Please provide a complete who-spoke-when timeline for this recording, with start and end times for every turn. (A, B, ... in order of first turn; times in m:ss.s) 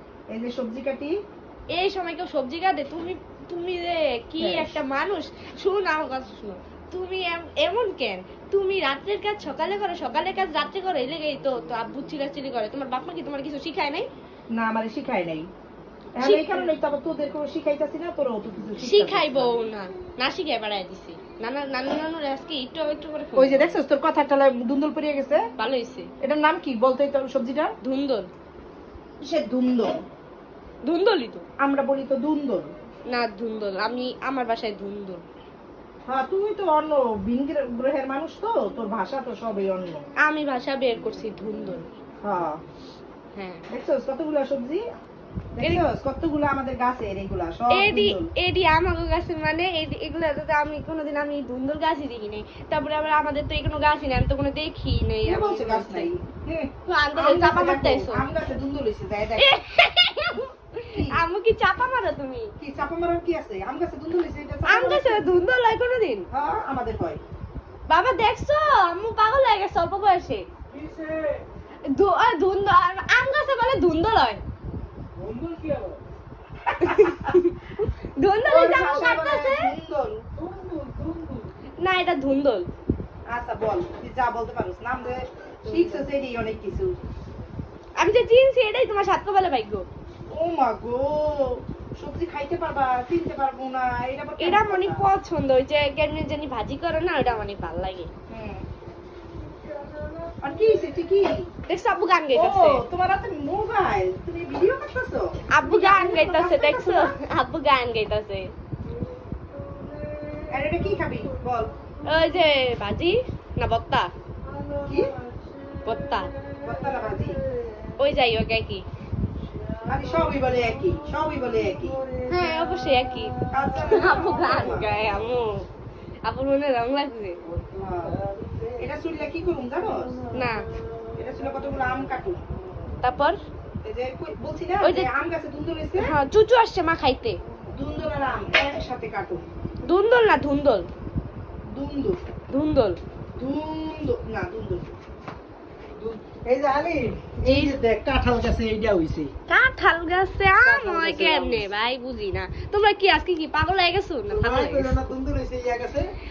0:00.3-0:01.2 A
0:01.7-0:14.1 B
0:04.4-0:04.8 A
0:14.5-0:15.5 A
0:16.2-0:19.6 A
0:16.2-0:16.7 B
0:18.8-0:23.8 B
0:23.4-0:25.4 A
0:25.6-0:26.1 B
0:26.2-0:27.7 A
0:27.8-0:28.3 B
0:29.2-0:30.0 A
0:30.8-0:31.4 B
0:31.6-0:32.7 A
0:33.1-0:35.2 B
0:36.1-0:40.0 A
0:40.2-0:41.8 B
0:42.2-0:42.6 A
0:43.4-0:43.6 B
0:43.7-0:44.8 A
0:45.6-0:48.3 A
0:47.7-0:56.1 B
0:55.2-0:59.5 A
0:56.9-0:58.2 B
0:59.4-1:02.5 B
1:00.9-1:01.2 A
1:02.6-1:05.3 A
1:04.7-1:06.3 B
1:06.3-1:07.2 A
1:07.9-1:10.5 B
1:10.7-1:11.5 C
1:11.8-1:14.4 B
1:15.2-1:16.0 C
1:16.8-1:19.7 B
1:16.8-1:17.4 A
1:18.5-1:20.2 A
1:20.4-1:21.5 C
1:21.8-1:22.7 B
1:23.3-1:27.0 A
1:25.7-1:26.0 C
1:28.0-1:29.9 B
1:30.3-1:35.0 A
1:34.4-1:38.1 B
1:38.3-1:38.7 A
1:39.4-1:40.9 C
1:40.4-1:41.5 A
1:41.7-1:42.8 B
1:42.3-1:47.2 A
1:45.5-1:48.5 B
1:48.8-1:52.5 C
1:50.5-1:51.7 A
1:52.0-1:54.1 B
1:54.4-1:58.1 C
1:54.9-1:55.1 A
1:55.8-1:56.3 B
1:56.6-1:57.4 A
1:58.0-1:58.8 B
1:59.4-2:05.4 C
1:59.9-2:02.0 A
2:02.3-2:05.7 B
2:03.5-2:04.9 A
2:06.2-2:07.4 B
2:07.4-2:13.0 C
2:07.8-2:08.2 A
2:08.8-2:10.1 A
2:10.3-2:10.7 B
2:11.2-2:12.4 A
2:13.0-2:13.4 B
2:13.8-2:16.1 A
2:14.8-2:15.1 B
2:16.0-2:17.4 B
2:17.7-2:19.4 A
2:19.8-2:20.9 B
2:21.7-2:22.2 A
2:22.5-2:23.0 B
2:23.4-2:24.9 A
2:26.0-2:29.3 C
2:27.4-2:27.8 B
2:29.5-2:35.1 B
2:30.6-2:31.7 C
2:34.3-2:36.1 C